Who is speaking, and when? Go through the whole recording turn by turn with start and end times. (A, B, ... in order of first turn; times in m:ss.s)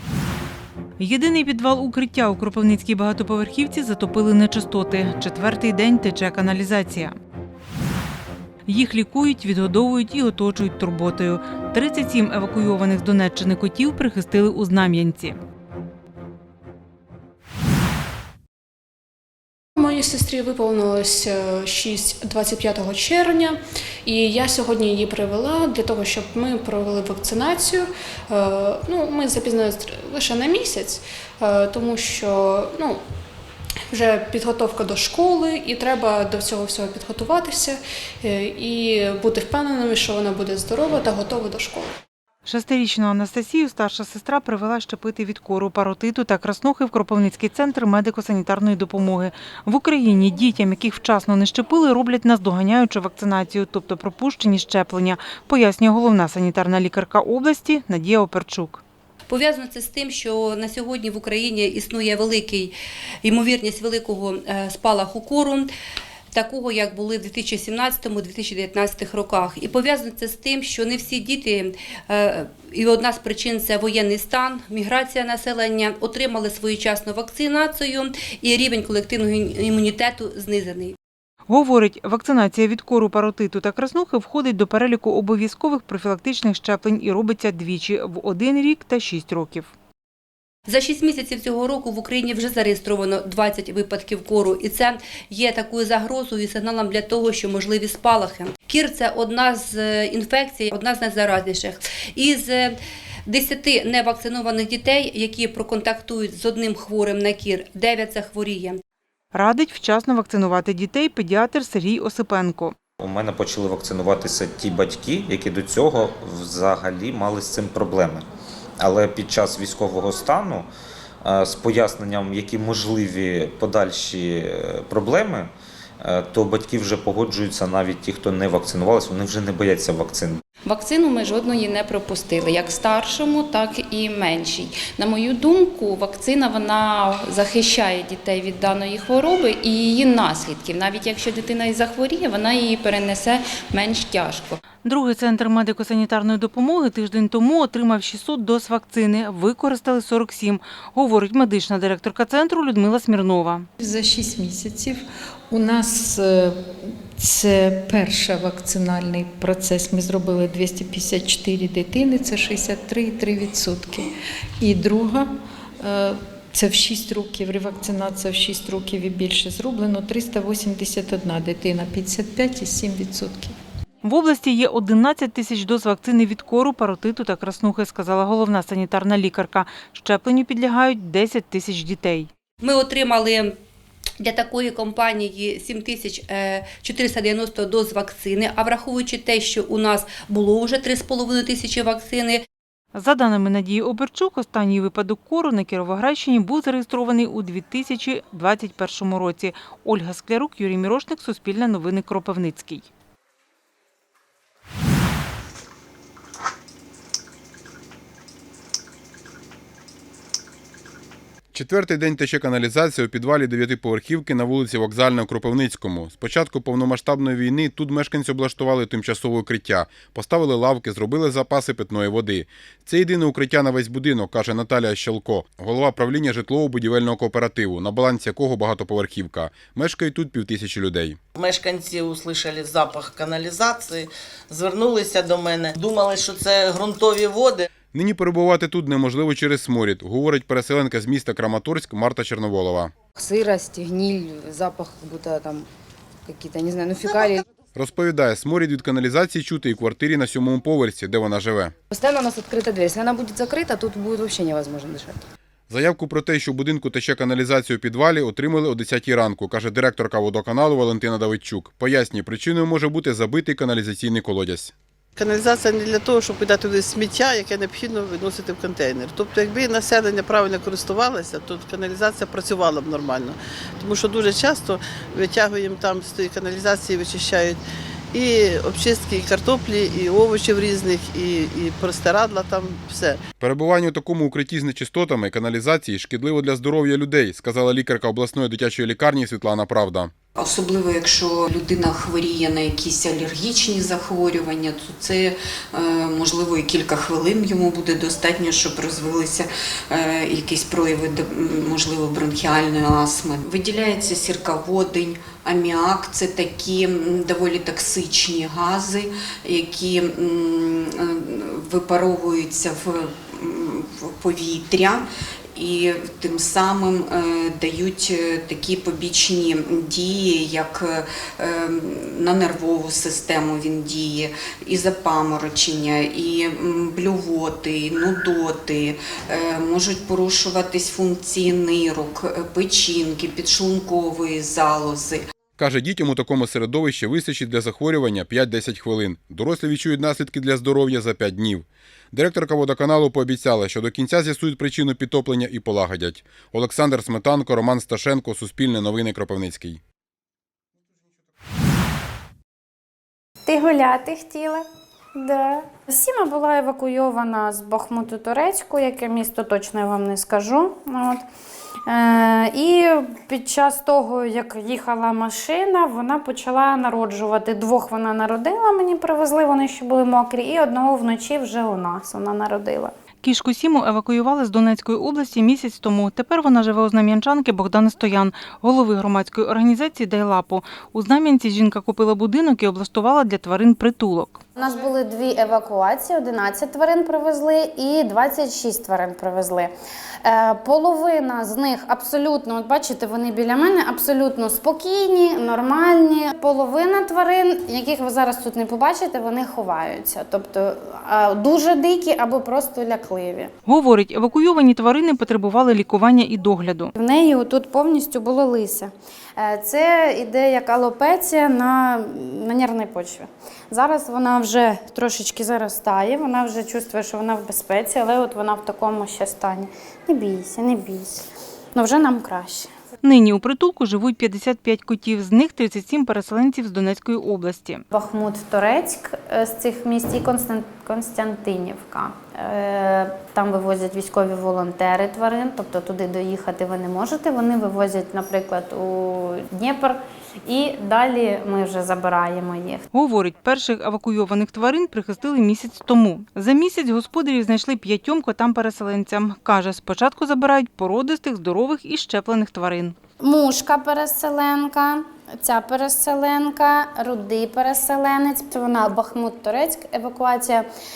0:01.0-0:07.2 A
0:08.7-0:15.4 A
0:19.8-0:33.0 B
0:33.9-0:41.9 B
0:42.4-0:58.8 A
0:59.3-1:02.7 C
1:03.2-1:05.7 C
1:06.3-1:20.9 C
1:21.5-1:29.7 A
1:30.7-1:42.8 C
1:43.3-1:48.8 C
1:49.3-1:52.7 A
1:53.0-1:58.2 D
1:58.8-2:00.7 D
2:01.2-2:10.4 D
2:10.6-2:24.6 E
2:24.8-2:33.7 A
2:33.8-2:44.1 F
2:44.6-2:45.3 F
2:45.8-2:53.5 F
2:54.0-3:02.3 A
3:02.6-3:03.5 C
3:04.2-3:12.4 C
3:12.9-3:22.9 A
3:31.5-3:51.2 G
3:51.4-3:57.7 H
3:57.9-4:02.9 G
4:03.2-4:05.7 I
4:06.2-4:07.4 I
4:07.8-4:11.7 G
4:11.9-4:15.2 I
4:15.7-4:24.7 G
4:25.2-4:37.6 J
4:38.1-4:43.2 J
4:43.4-4:50.1 G
4:50.4-5:35.3 K
5:35.6-5:49.8 G
5:53.4-5:54.6 L
5:55.2-6:01.2 L
6:01.9-6:12.9 L
6:13.2-6:24.4 A
6:24.6-6:29.7 L
6:30.2-6:43.5 L
6:43.7-6:46.9 A
6:47.0-7:01.2 L
7:01.7-7:02.7 L
7:03.0-7:07.8 A
7:07.9-7:22.8 L
7:22.9-7:32.9 A
7:33.2-7:40.6 L